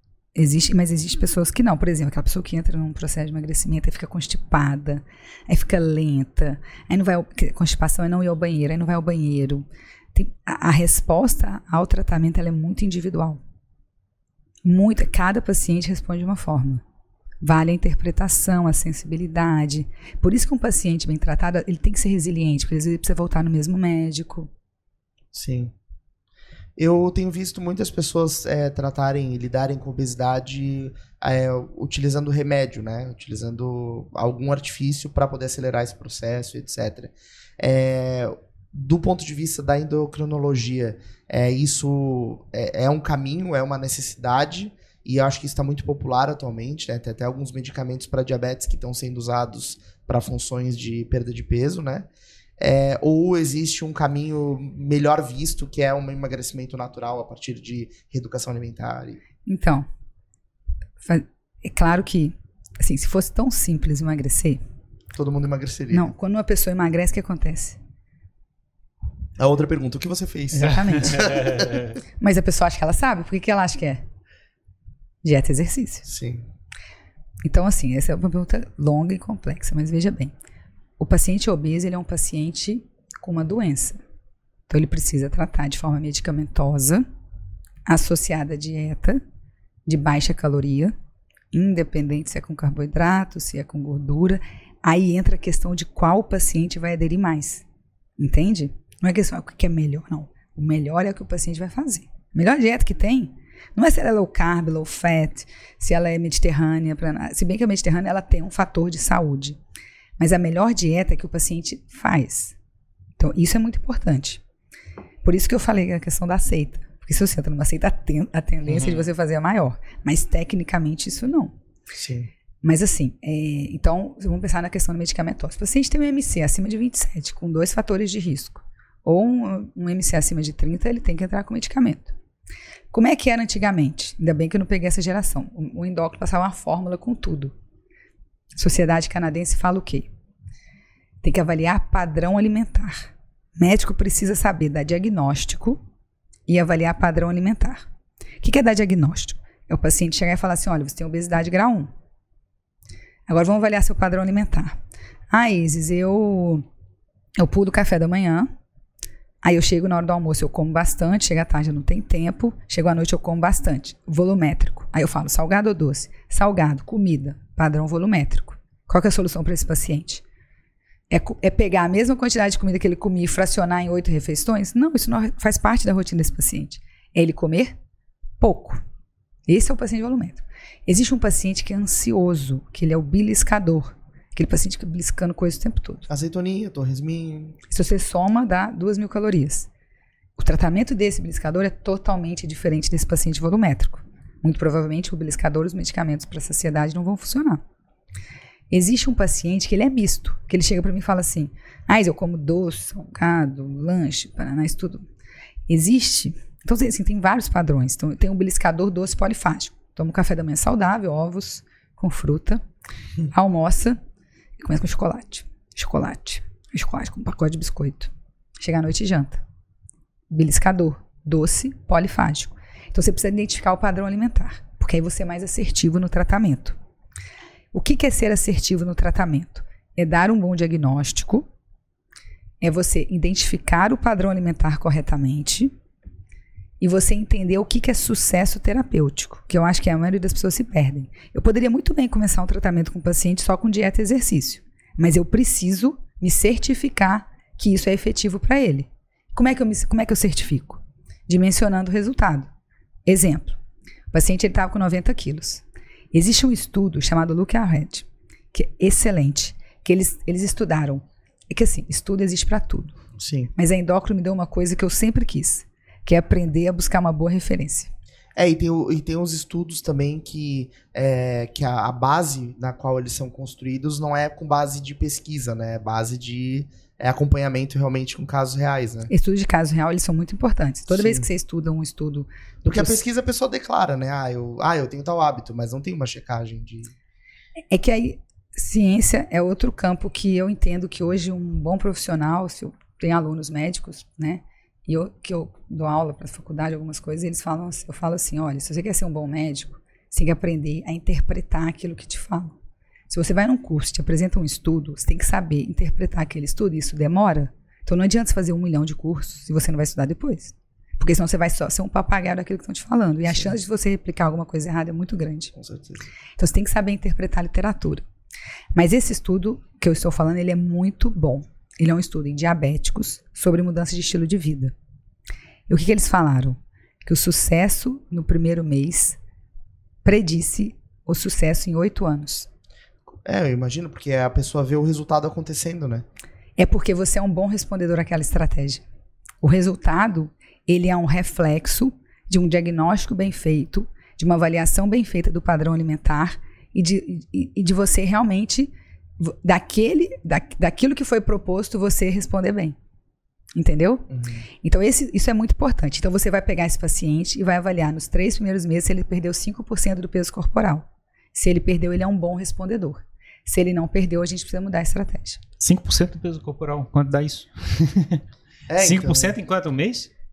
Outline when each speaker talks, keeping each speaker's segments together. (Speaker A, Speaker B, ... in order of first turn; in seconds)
Speaker A: 0.3-13.4, 14.6-16.8, 17.4-24.5, 59.4-59.9, 61.0-64.6, 65.9-67.8, 70.5-71.5, 72.2-74.0, 75.2-76.1, 77.4-80.3, 81.0-84.0, 84.7-87.0, 87.8-89.2, 89.8-90.9, 91.5-97.6, 98.2-109.6, 110.2-112.5, 113.2-114.4, 115.2-121.5, 122.6-132.1, 132.9-137.5, 138.6-140.1, 141.2-145.8, 146.5-147.8, 148.4-151.9, 153.3-154.8, 155.3-156.6, 157.4-158.5, 159.4-170.2, 171.1-177.8, 178.4-178.8, 179.5-186.1, 187.7-189.7, 190.4-197.6, 198.7-205.0, 205.7-212.6, 213.3-214.0, 214.6-219.4, 220.3-226.8, 227.7-231.5, 232.6-235.7, 236.8-252.5, 253.1-253.6, 254.1-263.0, 263.6-267.9, 279.1-283.0, 287.7-302.6, 303.1-315.5, 316.4-318.0, 318.7-324.7, 325.7-329.2, 330.0-332.5, 336.6-338.8, 339.4-352.8, 353.5-354.1, 354.6-365.4
Speaker B: 25.3-25.7, 26.8-59.2, 65.1-66.1, 69.4-71.8, 76.0-76.5, 121.9-122.3, 186.1-187.6, 263.2-263.5, 268.4-279.1, 280.9-281.3, 282.6-286.9, 313.3-313.5, 315.5-316.0, 333.1-336.1, 354.1-354.4, 368.7-369.4
Speaker C: 365.6-368.2, 368.8-370.1